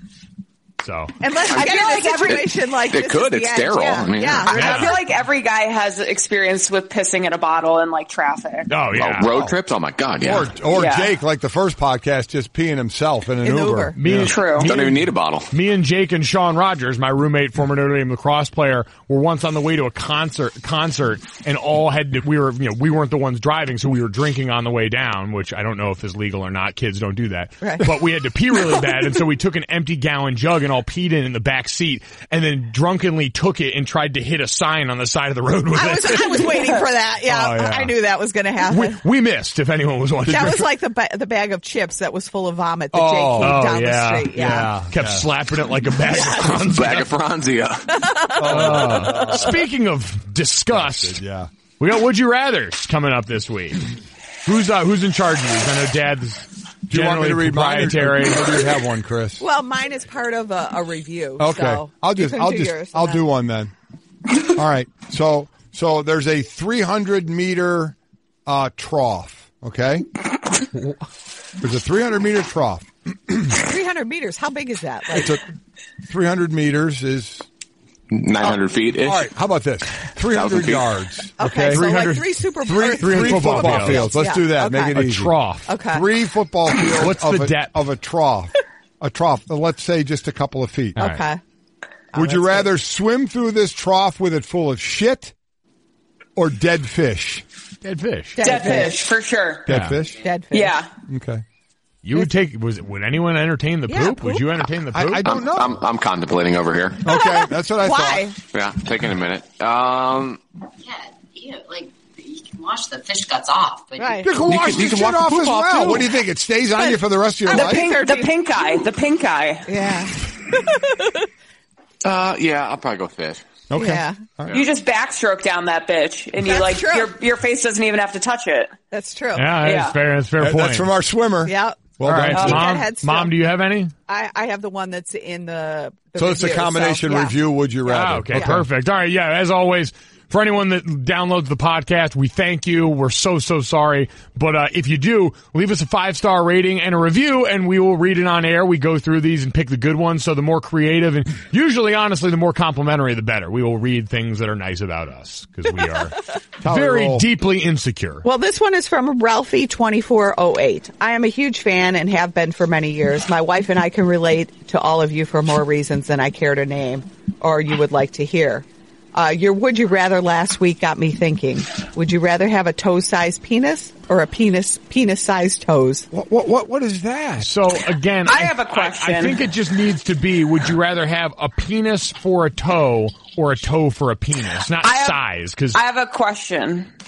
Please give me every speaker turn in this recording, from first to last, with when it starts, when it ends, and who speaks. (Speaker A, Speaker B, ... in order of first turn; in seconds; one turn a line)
Speaker A: 0.8-1.2
Speaker B: 1.2-5.1
Speaker C: 1.5-4.9
Speaker D: 1.5-2.3
Speaker A: 4.5-5.0
Speaker D: 4.6-8.7
Speaker A: 8.7-9.4
Speaker C: 8.9-10.5
Speaker E: 10.2-14.3
Speaker D: 10.7-11.1
Speaker B: 13.4-14.0
Speaker A: 14.0-37.9
Speaker D: 14.2-14.8
Speaker C: 14.6-15.5
Speaker B: 27.6-27.9
Speaker B: 35.7-39.0
Speaker A: 38.7-40.7
Speaker E: 40.3-40.7
Speaker B: 40.3-44.7
Speaker E: 42.9-43.8
Speaker A: 43.4-47.1
Speaker E: 44.3-45.3
Speaker B: 46.1-46.4
Speaker C: 46.3-48.1
Speaker B: 48.0-49.5
Speaker E: 48.4-49.6
Speaker A: 48.4-51.2
Speaker E: 50.7-51.5
Speaker A: 51.8-53.9
Speaker A: 54.5-58.5
Speaker E: 56.9-59.4
Speaker B: 59.4-63.2
Speaker E: 61.4-63.7
Speaker E: 64.4-68.0
Speaker E: 68.5-70.1
Speaker E: 71.6-73.6
Speaker B: 73.6-75.3
Speaker E: 75.1-75.4
Speaker E: 76.1-77.5
Speaker C: 78.1-79.3
Speaker E: 78.4-81.9
Speaker C: 80.3-80.8
Speaker B: 81.4-85.0
Speaker A: 81.7-84.1
Speaker E: 82.7-91.0
Speaker A: 84.9-85.8
Speaker B: 85.7-86.0
Speaker A: 86.9-87.8
Speaker A: 91.0-91.3
Speaker B: 91.0-91.4
Speaker B: 92.1-92.7
Speaker E: 92.1-95.3
Speaker E: 96.4-97.5
Speaker A: 97.8-98.5
Speaker B: 98.4-99.1
Speaker D: 98.4-99.7
Speaker E: 99.7-100.3
Speaker A: 99.7-100.0
Speaker B: 100.2-100.8
Speaker D: 100.5-100.9
Speaker E: 101.1-101.4
Speaker A: 102.0-105.4
Speaker B: 103.9-104.5
Speaker E: 104.9-105.8
Speaker C: 105.2-107.1
Speaker E: 107.0-108.3
Speaker B: 107.1-108.4
Speaker C: 108.5-110.4
Speaker F: 110.8-114.2
Speaker B: 114.0-114.3
Speaker E: 114.2-118.0
Speaker C: 114.3-116.1
Speaker B: 116.8-118.9
Speaker D: 117.5-119.7
Speaker B: 119.7-121.3
Speaker C: 122.0-123.5
Speaker E: 123.7-124.6
Speaker B: 123.8-124.2
Speaker D: 124.5-128.7
Speaker B: 126.4-127.1
Speaker B: 128.9-129.6
Speaker A: 129.3-130.9
Speaker D: 129.6-130.0
Speaker E: 130.4-132.8
Speaker B: 131.4-133.3
Speaker A: 132.0-133.9
Speaker B: 134.1-137.3
Speaker E: 136.2-138.7
Speaker A: 137.9-158.2
Speaker E: 156.6-157.3
Speaker B: 158.2-176.1
Speaker E: 176.1-177.5
Speaker A: 177.4-185.8
Speaker D: 178.3-179.4
Speaker D: 184.8-185.2
Speaker D: 185.7-186.9